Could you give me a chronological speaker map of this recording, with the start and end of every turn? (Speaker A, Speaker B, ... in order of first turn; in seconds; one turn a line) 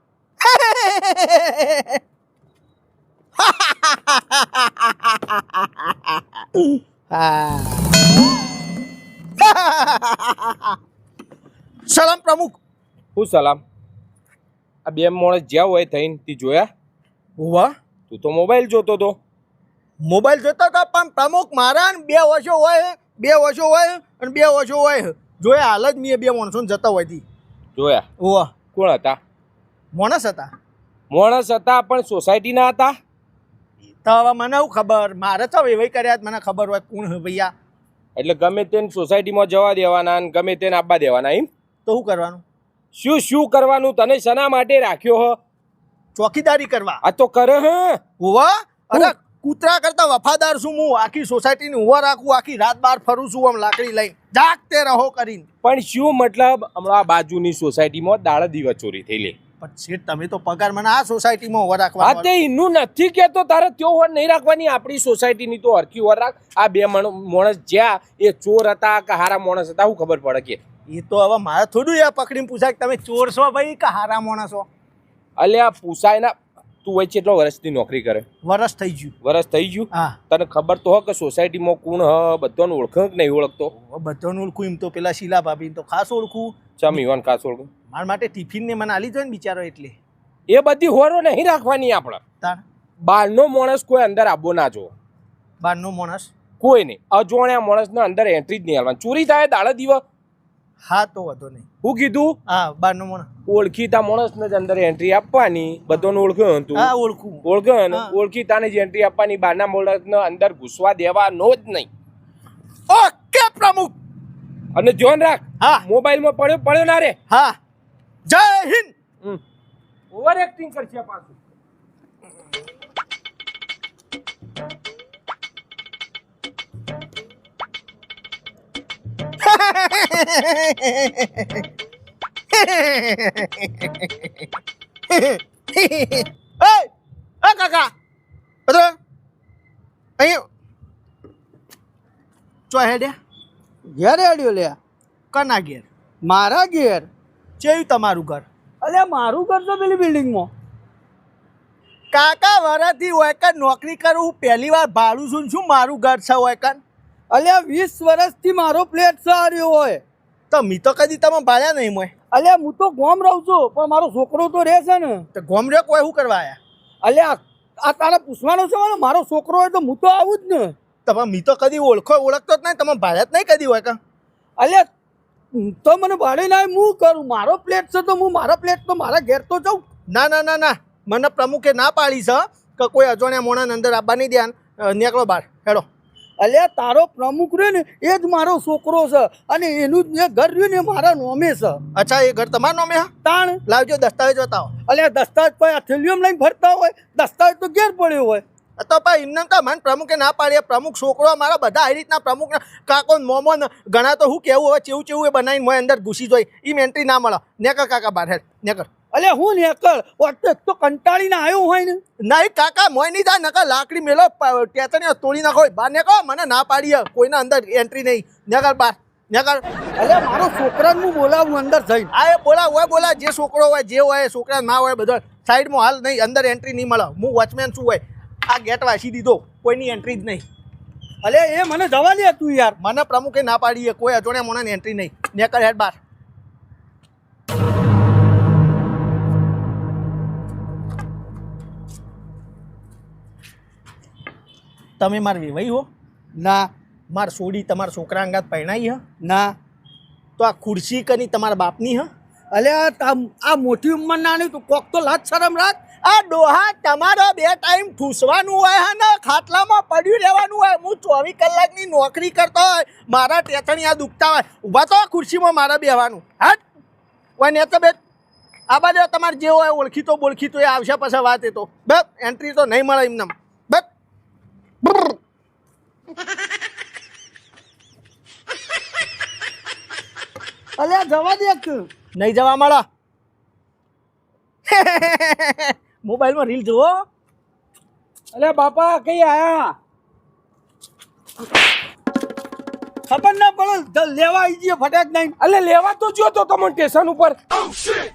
Speaker A: 0.4-1.9
Speaker A: 3.4-5.2
Speaker A: 7.1-8.0
Speaker A: 9.4-10.7
Speaker A: 11.9-12.6
Speaker B: 13.2-13.6
Speaker B: 14.8-16.7
Speaker A: 17.4-17.7
Speaker B: 18.1-19.2
Speaker A: 20.0-27.2
Speaker B: 27.8-28.0
Speaker A: 28.2-28.5
Speaker B: 28.7-29.2
Speaker A: 29.9-30.5
Speaker B: 31.1-32.9
Speaker A: 34.0-37.5
Speaker B: 38.1-41.5
Speaker A: 41.9-42.4
Speaker B: 42.9-45.4
Speaker A: 46.1-47.0
Speaker B: 47.0-48.0
Speaker A: 48.2-55.4
Speaker B: 55.6-59.4
Speaker A: 59.6-62.3
Speaker B: 62.0-70.6
Speaker A: 70.9-74.7
Speaker B: 75.4-76.3
Speaker B: 76.8-78.2
Speaker A: 78.4-79.1
Speaker B: 79.2-83.7
Speaker A: 83.8-86.6
Speaker B: 86.8-87.7
Speaker A: 87.9-90.0
Speaker B: 90.5-92.2
Speaker B: 93.0-94.9
Speaker A: 95.6-96.3
Speaker B: 96.6-100.0
Speaker A: 100.8-101.6
Speaker B: 101.8-102.4
Speaker A: 102.5-103.3
Speaker B: 103.5-106.9
Speaker A: 106.7-108.1
Speaker B: 107.4-111.9
Speaker A: 112.9-113.9
Speaker B: 114.7-117.2
Speaker A: 117.3-117.5
Speaker A: 118.3-118.9
Speaker B: 120.1-121.3
Speaker A: 129.4-131.5
Speaker A: 132.5-134.3
Speaker A: 135.1-136.9
Speaker A: 137.4-137.9
Speaker A: 138.7-138.9
Speaker A: 140.2-140.4
Speaker A: 142.7-143.1
Speaker C: 143.9-144.8
Speaker A: 145.3-145.9
Speaker C: 146.2-147.1
Speaker A: 147.6-148.4
Speaker C: 148.8-150.5
Speaker A: 152.1-156.8
Speaker C: 157.3-160.0
Speaker A: 160.5-162.1
Speaker C: 162.3-165.2
Speaker A: 165.3-166.6
Speaker C: 167.0-170.7
Speaker A: 171.1-174.0
Speaker C: 174.6-174.9
Speaker C: 175.5-179.8
Speaker A: 180.1-185.8
Speaker C: 186.4-191.8
Speaker A: 191.9-193.1
Speaker C: 193.2-193.6
Speaker A: 193.7-194.7
Speaker C: 194.8-198.4
Speaker A: 198.8-208.9
Speaker C: 209.1-212.0
Speaker A: 212.3-219.6
Speaker C: 220.0-222.1
Speaker A: 222.1-230.4
Speaker C: 231.2-232.8
Speaker A: 232.8-236.0
Speaker A: 245.0-245.9
Speaker C: 246.4-246.7
Speaker A: 247.1-249.0
Speaker C: 249.2-249.5
Speaker A: 250.4-252.1
Speaker C: 252.5-255.8
Speaker A: 256.0-266.6
Speaker A: 267.4-267.9
Speaker A: 268.7-273.9
Speaker C: 280.8-281.9
Speaker A: 282.1-282.8
Speaker A: 284.7-286.9
Speaker B: 288.3-289.8
Speaker C: 293.1-295.4
Speaker B: 295.4-297.4